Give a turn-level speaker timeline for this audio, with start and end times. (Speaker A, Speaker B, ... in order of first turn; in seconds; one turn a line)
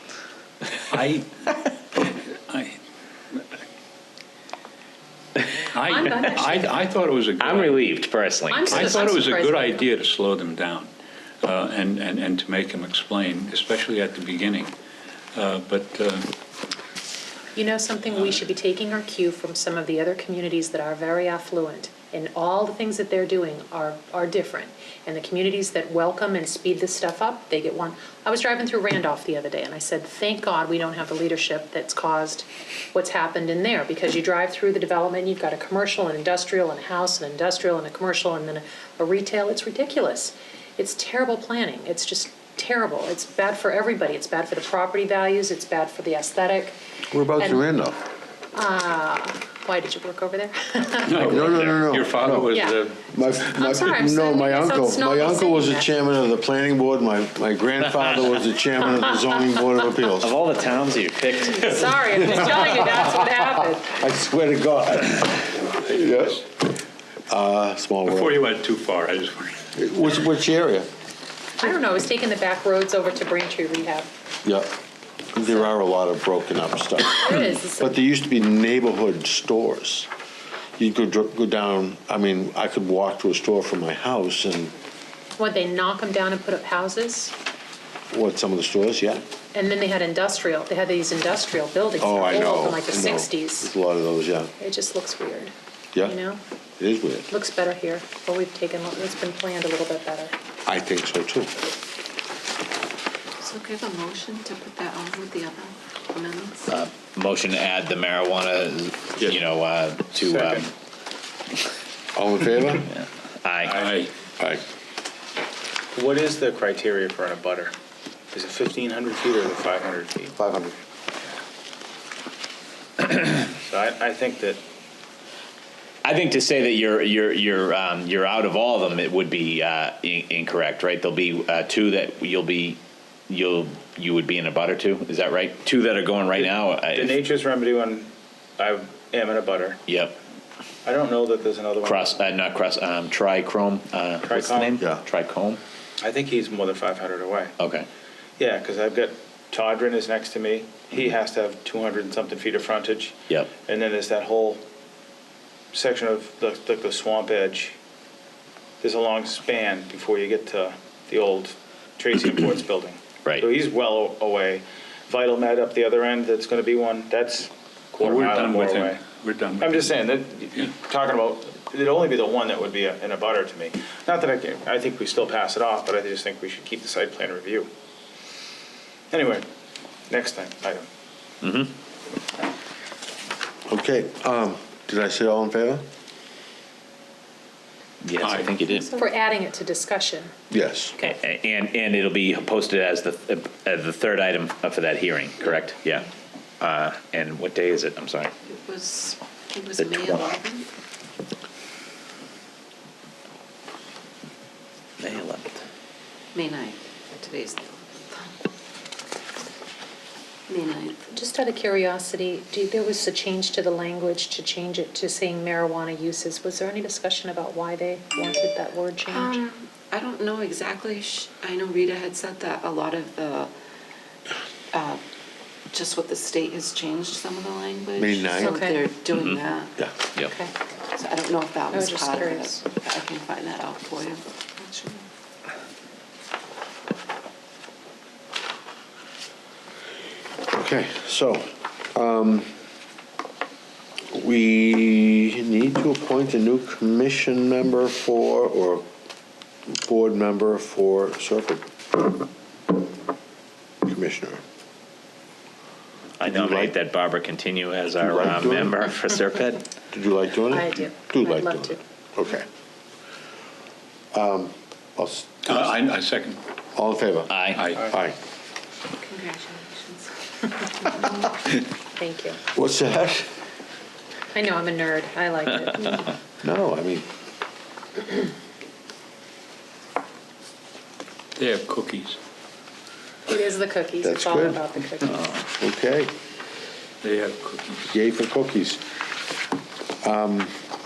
Speaker A: 0.9-1.2
Speaker A: 2.0-2.8
Speaker A: 5.7-7.9
Speaker B: 5.9-6.8
Speaker C: 7.4-8.9
Speaker B: 8.5-9.8
Speaker A: 8.7-10.9
Speaker A: 11.4-14.7
Speaker A: 15.3-16.3
Speaker B: 17.5-46.8
Speaker D: 47.1-48.0
Speaker B: 47.4-47.6
Speaker B: 48.5-51.2
Speaker A: 51.0-53.0
Speaker D: 51.2-60.4
Speaker B: 52.5-52.8
Speaker B: 53.5-56.1
Speaker C: 60.2-62.0
Speaker B: 61.6-64.0
Speaker D: 62.2-66.5
Speaker A: 65.9-66.3
Speaker D: 67.3-68.4
Speaker A: 68.0-69.7
Speaker D: 69.8-70.9
Speaker B: 71.6-74.1
Speaker D: 74.4-74.7
Speaker D: 75.3-80.1
Speaker B: 77.1-77.9
Speaker D: 80.8-84.7
Speaker B: 85.4-87.3
Speaker D: 88.1-89.2
Speaker B: 89.5-93.7
Speaker D: 92.0-94.5
Speaker B: 94.6-95.5
Speaker B: 96.0-96.4
Speaker D: 96.8-97.3
Speaker B: 97.3-100.3
Speaker D: 100.7-101.5
Speaker E: 103.4-106.7
Speaker C: 106.7-110.7
Speaker F: 110.2-110.7
Speaker D: 112.1-112.9
Speaker C: 112.9-113.8
Speaker F: 113.6-113.9
Speaker A: 113.7-114.1
Speaker F: 115.9-117.7
Speaker F: 118.3-120.3
Speaker D: 120.3-120.7
Speaker F: 123.1-124.6
Speaker C: 126.0-137.2
Speaker F: 136.4-139.8
Speaker C: 139.9-140.2
Speaker F: 140.8-142.1
Speaker C: 141.8-145.6
Speaker F: 144.2-144.8
Speaker F: 146.0-147.5
Speaker C: 147.6-147.9
Speaker F: 148.4-154.6
Speaker F: 155.7-157.8
Speaker F: 158.8-169.0
Speaker A: 168.0-170.0
Speaker F: 169.6-177.7
Speaker F: 179.1-179.4
Speaker F: 180.1-180.8
Speaker C: 181.4-181.7
Speaker D: 183.7-185.8
Speaker C: 188.0-188.9
Speaker A: 188.2-188.5
Speaker B: 188.9-190.3
Speaker D: 190.5-191.0
Speaker C: 191.0-196.1
Speaker C: 196.6-198.3
Speaker E: 198.5-200.7
Speaker C: 199.8-200.3
Speaker C: 205.0-205.6
Speaker E: 206.3-208.3
Speaker E: 210.5-211.1
Speaker B: 211.1-219.4
Speaker E: 219.1-223.5
Speaker E: 224.7-225.0
Speaker E: 225.7-229.7
Speaker D: 228.0-228.6
Speaker B: 228.4-228.9
Speaker C: 229.1-229.4
Speaker B: 230.2-230.5
Speaker E: 230.9-235.1
Speaker B: 231.7-232.6
Speaker D: 240.5-242.5
Speaker D: 244.1-248.8
Speaker D: 249.7-252.1
Speaker D: 253.8-254.4
Speaker C: 256.2-259.6
Speaker D: 256.2-256.7
Speaker D: 258.0-258.8
Speaker D: 259.9-262.4
Speaker B: 260.5-261.8
Speaker D: 264.1-265.8
Speaker A: 265.5-266.4
Speaker D: 266.8-268.1
Speaker C: 267.3-267.6
Speaker A: 267.5-267.9
Speaker E: 269.0-270.1
Speaker E: 270.8-271.4
Speaker B: 271.9-272.4
Speaker D: 272.5-273.3
Speaker B: 274.3-276.1
Speaker D: 276.4-277.1
Speaker A: 281.4-282.2
Speaker B: 283.3-285.4
Speaker D: 284.0-286.1
Speaker A: 287.0-287.9
Speaker D: 287.9-288.8
Speaker D: 290.0-290.5